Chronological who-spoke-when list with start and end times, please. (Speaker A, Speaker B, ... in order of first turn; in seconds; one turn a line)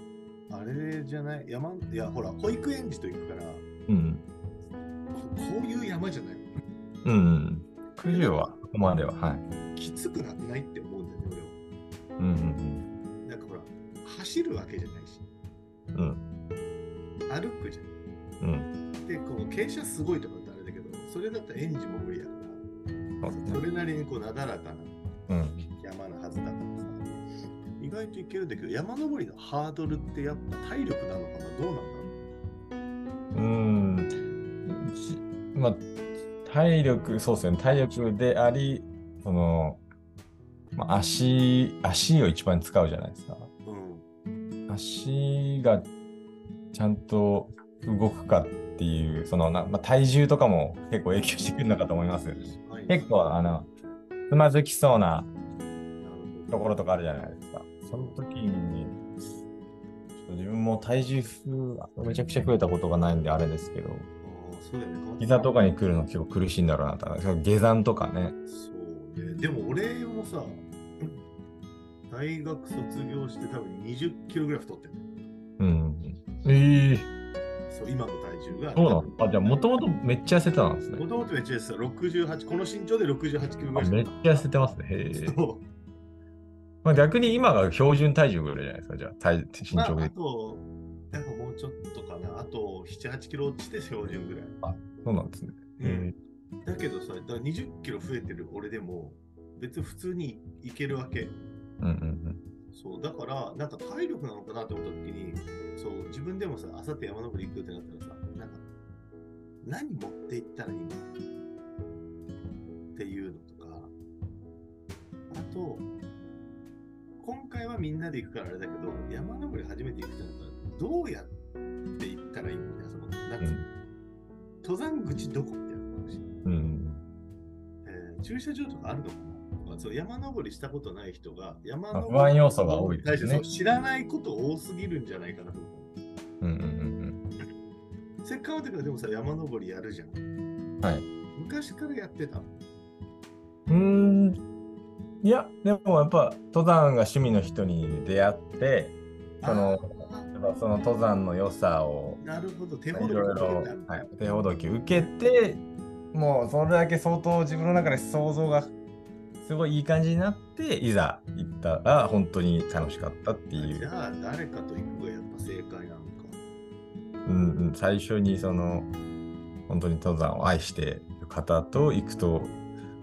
Speaker A: 0.5-3.6
Speaker B: 3.9-4.2
Speaker A: 5.1-6.5
Speaker B: 7.0-9.4
Speaker A: 8.1-8.6
Speaker A: 9.7-11.6
Speaker B: 12.2-12.8
Speaker A: 13.2-15.2
Speaker B: 15.9-16.2
Speaker A: 17.3-17.9
Speaker B: 18.4-18.7
Speaker A: 19.0-22.6
Speaker B: 23.2-23.6
Speaker A: 23.3-24.9
Speaker B: 25.3-25.7
Speaker A: 25.8-27.2
Speaker A: 27.8-32.2
Speaker B: 33.3-34.1
Speaker B: 34.6-35.8
Speaker B: 36.4-39.8
Speaker B: 40.8-43.5
Speaker A: 43.6-44.0
Speaker B: 44.7-45.9
Speaker B: 46.7-53.7
Speaker A: 52.2-53.4
Speaker B: 54.3-55.3
Speaker A: 56.0-56.8
Speaker B: 56.5-59.0
Speaker A: 57.8-58.2
Speaker B: 60.2-64.1
Speaker A: 64.2-65.7
Speaker B: 65.2-68.3
Speaker A: 68.5-71.2
Speaker A: 72.1-75.0
Speaker B: 75.6-77.1
Speaker A: 77.7-79.9
Speaker B: 78.7-81.0
Speaker A: 81.0-84.5
Speaker B: 83.8-85.4
Speaker A: 85.1-85.6
Speaker B: 86.8-90.1
Speaker A: 89.7-94.5
Speaker B: 94.6-96.1
Speaker A: 95.8-96.1
Speaker A: 96.6-101.4
Speaker B: 101.8-102.4
Speaker A: 102.7-108.6
Speaker A: 109.6-111.1
Speaker A: 112.9-113.9
Speaker A: 115.3-115.9
Speaker A: 117.2-121.3
Speaker A: 121.9-123.5
Speaker B: 123.4-123.7
Speaker A: 124.6-126.2
Speaker B: 126.5-127.0
Speaker A: 127.8-135.9
Speaker B: 131.9-133.4
Speaker B: 136.4-137.2
Speaker A: 138.2-140.2
Speaker B: 140.8-141.1
Speaker A: 141.3-142.6
Speaker B: 143.7-144.4
Speaker B: 145.2-152.2
Speaker A: 149.4-150.3
Speaker A: 152.2-154.0
Speaker B: 152.9-155.6
Speaker B: 156.1-158.7
Speaker B: 159.4-163.9
Speaker A: 163.6-166.4
Speaker B: 167.2-168.9
Speaker B: 169.7-172.6